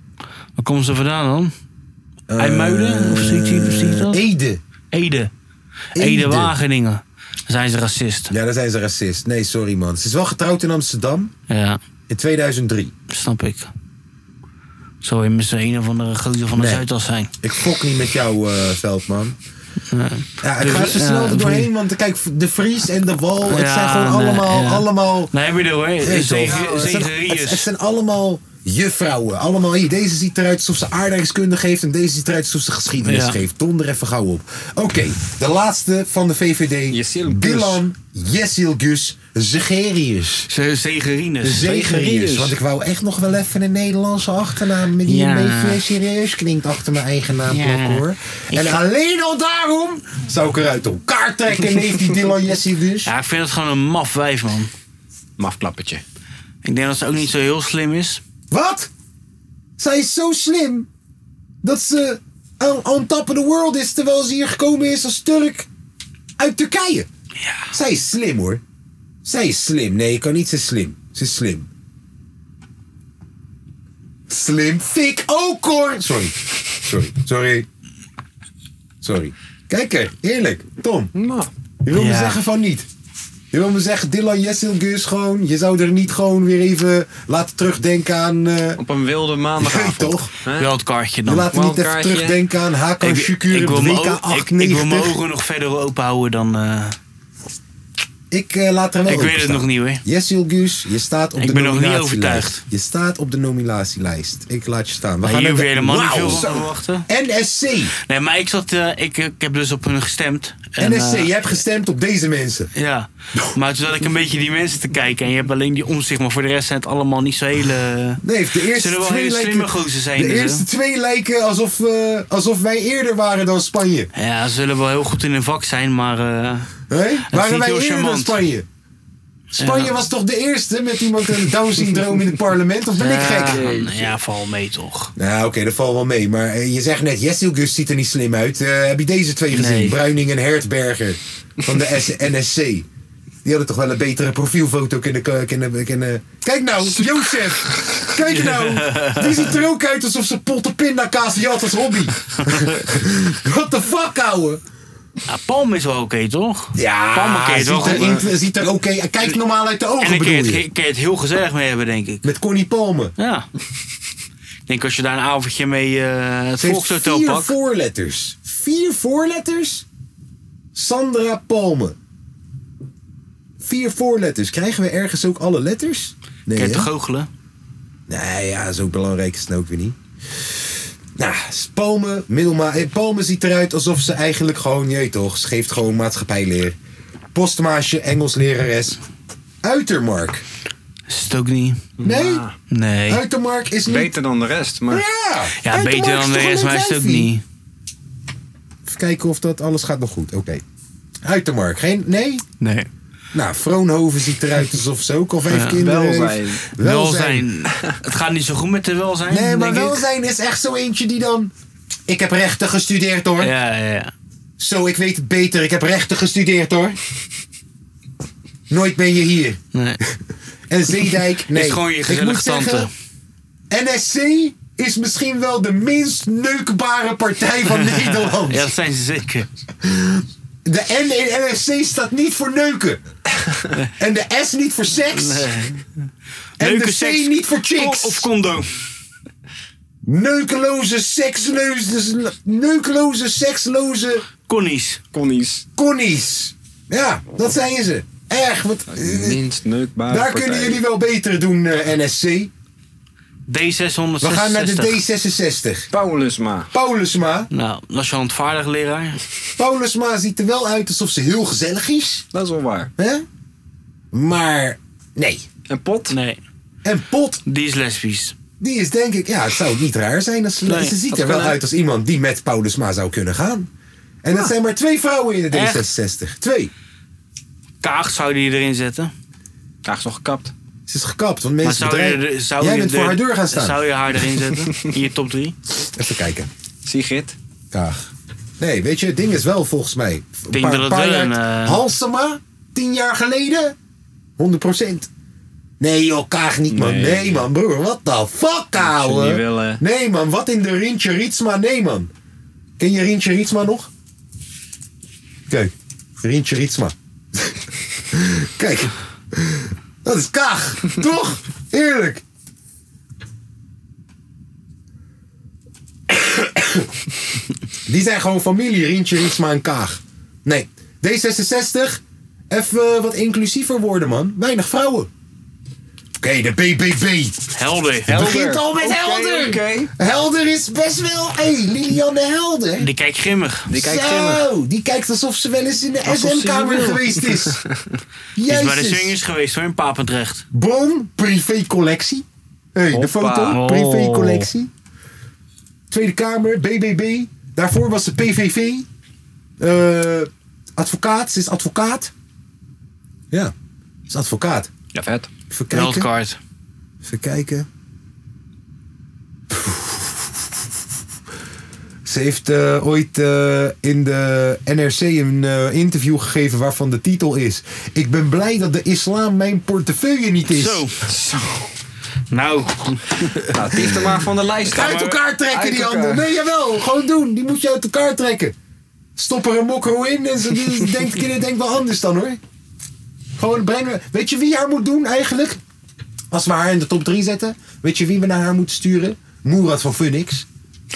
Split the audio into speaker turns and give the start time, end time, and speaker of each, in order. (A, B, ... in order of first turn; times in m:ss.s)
0:00.6-0:01.5 A
0:02.3-0:04.6 B
0:02.4-0:04.2 A
0:04.9-0:05.3 A
0:05.9-0:06.6 B
0:05.9-0:08.3 A
0:08.3-0:11.3 B
0:11.5-0:11.8 A
0:12.1-0:12.9 B
0:13.1-0:13.7 A
0:15.0-0:17.3 A
0:16.5-0:16.8 B
0:17.4-0:19.4 B
0:19.9-0:21.7 A
0:20.4-0:25.3 B
0:23.5-0:27.7 A
0:26.0-0:40.5 B
0:26.4-0:27.0 C
0:33.0-0:33.4 A
0:36.9-0:37.8 C
0:40.5-0:41.7 A
0:41.4-0:53.1 B
0:41.6-0:42.6 C
0:45.0-0:45.8 A
0:47.5-0:48.8 A
0:53.0-0:54.7 A
0:55.4-0:56.0 C
0:56.6-0:58.2 A
0:58.5-0:58.9 B
0:59.8-1:00.9 B
1:01.6-1:05.7 B
1:06.4-1:07.1 B
1:07.4-1:07.7 A
1:07.7-1:08.6 B
1:09.2-1:11.7 B
1:14.3-1:17.6 B
1:19.0-1:21.1 B
1:21.1-1:21.5 C
1:21.8-1:22.9 B
1:21.9-1:22.4 A
1:23.5-1:28.8 B
1:28.8-1:30.7 C
1:29.6-1:30.3 B
1:30.5-1:31.5 A
1:31.2-1:35.2 B
1:31.5-1:32.4 C
1:33.0-1:37.0 A
1:38.3-1:47.9 B
1:39.0-1:40.0 A
1:41.4-1:42.6 A
1:45.2-1:47.1 A
1:48.0-1:51.4 A
1:50.8-1:52.7 B
1:52.7-2:00.6 A
1:58.2-2:04.1 B
2:04.1-2:06.7 A
2:06.9-2:08.6 B
2:07.3-2:08.4 A
2:09.5-2:13.6 B
2:09.6-2:09.9 A
2:13.0-2:15.1 A
2:13.5-2:14.1 C
2:15.2-2:22.8 B
2:19.5-2:20.0 A
2:23.4-2:34.6 B
2:28.3-2:29.4 A
2:35.3-2:38.3 A
2:36.7-2:40.6 B
2:37.8-2:38.1 C
2:40.0-2:42.3 A
2:42.2-2:43.1 B
2:43.2-2:43.5 A
2:44.7-2:47.5 A
2:46.6-2:49.8 B
2:50.7-2:51.9 B
2:53.6-2:56.9 B
2:56.5-2:57.3 A
2:58.1-3:06.8 B
3:07.3-3:09.0 B
3:09.6-3:10.4 B
3:11.1-3:11.9 A
3:12.0-3:12.5 C
3:12.0-3:12.4 B
3:12.7-3:13.2 A
3:13.1-3:14.1 B
3:13.9-3:15.0 C
3:14.9-3:17.3 B
3:15.6-3:17.4 A
3:18.8-3:20.6 B
3:21.2-3:22.4 B
3:22.6-3:22.9 A
3:23.3-3:27.5 B
3:25.5-3:25.8 A
3:25.7-3:26.6 C
3:26.8-3:30.0 A
3:29.3-3:31.5 B
3:32.1-3:33.5 B
3:33.4-3:34.1 A
3:34.6-3:37.0 B
3:38.7-3:40.2 B
3:39.7-3:40.0 A
3:40.7-3:42.9 B
3:41.5-3:42.9 A
3:43.7-3:48.7 B
3:47.8-3:49.5 A
3:49.8-3:53.0 B
3:54.0-3:55.6 B
3:55.1-3:55.8 A
3:56.6-3:58.3 B
3:56.6-3:58.8 A
4:00.0-4:04.2 B
4:04.5-4:05.0 A
4:05.1-4:05.6 C
4:05.8-4:09.4 B
4:08.9-4:10.8 C
4:10.1-4:12.5 B
4:13.5-4:15.0 A
4:14.2-4:15.9 B
4:15.9-4:16.7 C
4:16.7-4:17.5 B
4:17.5-4:19.2 A
4:19.6-4:22.2 B
4:22.3-4:22.9 C
4:23.0-4:23.2 B
4:24.1-4:25.4 B
4:25.7-4:26.1 C
4:26.1-4:26.4 A
4:26.8-4:27.4 B
4:27.4-4:28.3 A
4:28.6-4:33.7 B
4:30.6-4:31.0 A
4:31.1-4:31.6 C
4:34.2-4:36.7 B
4:35.5-4:35.8 A
4:37.8-4:39.1 A
4:39.8-4:40.5 C
4:40.9-4:43.8 B
4:41.6-4:45.6 A
4:45.9-4:46.5 B
4:46.8-4:47.4 C
4:47.7-4:53.7 B
4:50.5-4:51.8 A
4:54.4-4:55.1 B
4:55.8-5:02.1 B
4:56.7-4:57.5 C
4:58.8-4:59.8 C
5:02.8-5:03.9 B
5:05.5-5:12.2 B
5:16.1-5:16.9 B
5:17.9-5:25.1 B
5:26.2-5:27.5 B
5:27.5-5:28.3 A
5:28.0-5:32.9 B
5:28.1-5:29.9 C
5:32.8-5:33.7 A
5:33.7-5:34.4 C
5:33.7-5:37.6 B
5:36.0-5:37.9 C
5:38.4-5:39.2 B
5:38.4-5:40.4 A
5:40.5-5:44.7 B
5:42.9-5:43.6 C
5:43.5-5:44.5 A
5:45.9-5:48.9 B
5:49.6-5:52.1 B
5:54.1-5:54.7 B
5:54.9-5:55.3 C
5:55.5-5:56.1 B
5:55.7-5:56.4 A
5:57.0-5:57.7 B
5:59.5-6:00.2 B
6:02.0-6:10.9 B
6:10.5-6:11.0 A
6:11.0-6:11.7 C
6:12.3-6:13.5 A
6:13.5-6:16.3 C
6:13.8-6:18.5 B
6:19.2-6:22.4 B
6:23.4-6:25.6 B
6:26.3-6:30.4 B